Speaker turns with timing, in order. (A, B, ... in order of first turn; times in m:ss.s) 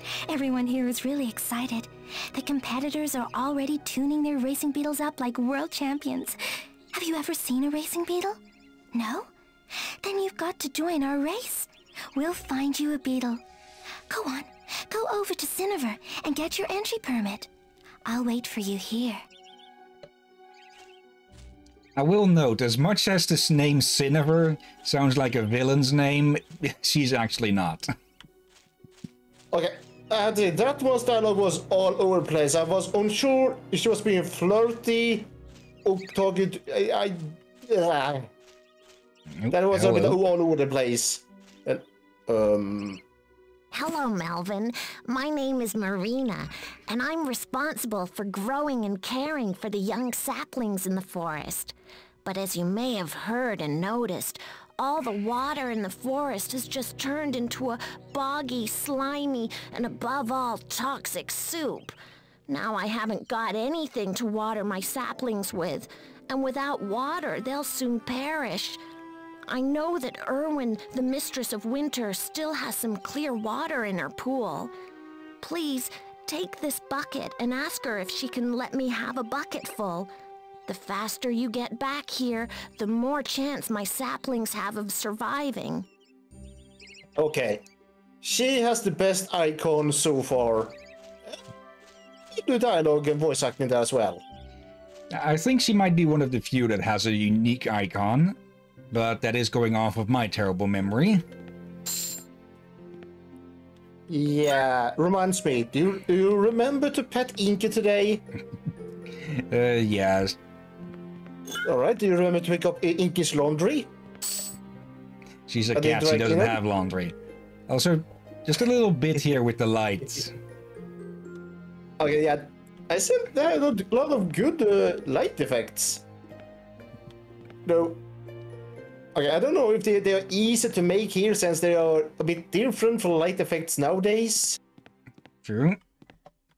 0:00.2-0:06.4 A
0:06.9-0:08.4 A
0:08.9-0:13.4 A
0:14.1-0:17.5 A
0:18.0-0:19.2 A
0:22.0-0:27.9 B
0:29.5-0:35.3 C
0:35.8-0:38.3 C
0:39.4-0:40.2 B
0:39.5-0:43.0 C
0:43.7-1:01.9 D
1:02.5-1:08.8 D
1:09.5-1:14.7 D
1:15.4-1:20.1 D
1:20.7-1:25.9 D
1:27.2-1:27.6 C
1:28.2-1:30.8 C
1:32.3-1:34.2 C
1:35.1-1:38.4 B
1:38.9-1:41.2 B
1:44.1-1:48.2 C
1:49.2-1:50.4 B
1:51.6-1:53.9 C
1:55.5-1:57.2 B
1:55.7-1:56.6 C
1:57.7-2:00.3 B
2:02.0-2:06.0 C
2:07.6-2:08.0 C
2:09.1-2:14.6 C
2:15.4-2:15.8 B